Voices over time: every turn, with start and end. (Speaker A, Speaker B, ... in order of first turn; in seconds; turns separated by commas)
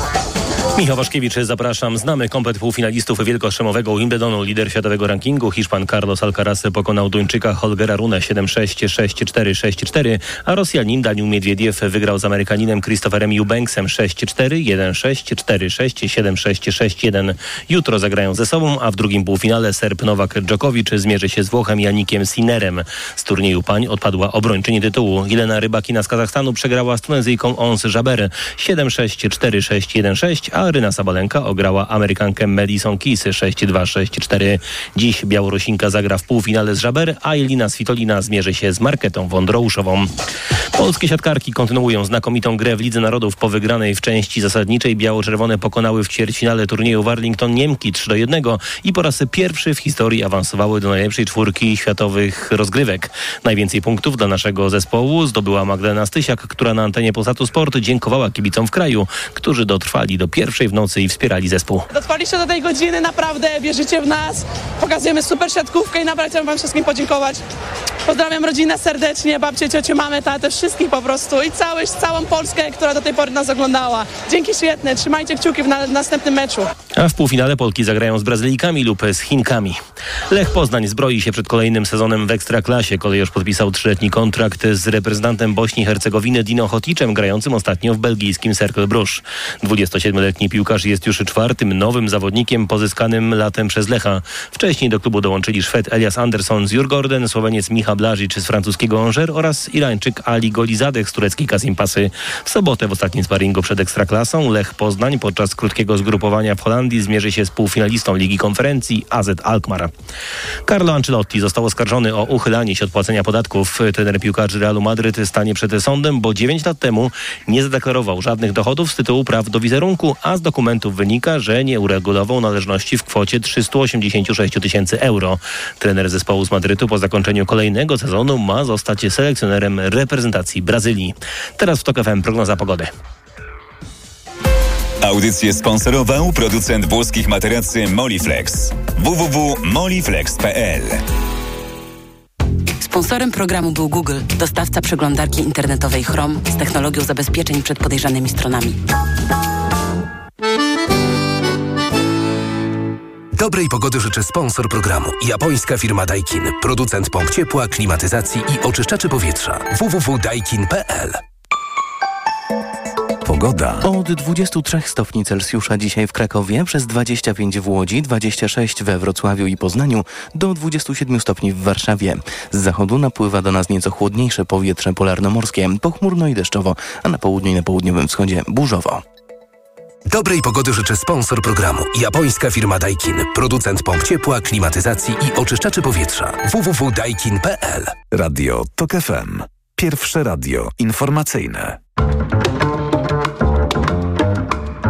Speaker A: 0.8-40.1, Speaker A: 40.7-61.9, Speaker B: 61.9-67.4, Speaker B: 68.0-76.7, Speaker A: 77.0-79.8, Speaker A: 80.3-109.9, Speaker A: 110.7-132.9, Speaker C: 135.0-141.0, Speaker D: 142.8-148.8, Speaker E: 153.3-161.2, Speaker F: 163.2-163.8, Speaker G: 163.8-179.0, Speaker E: 180.1-187.9, Speaker F: 188.1-191.8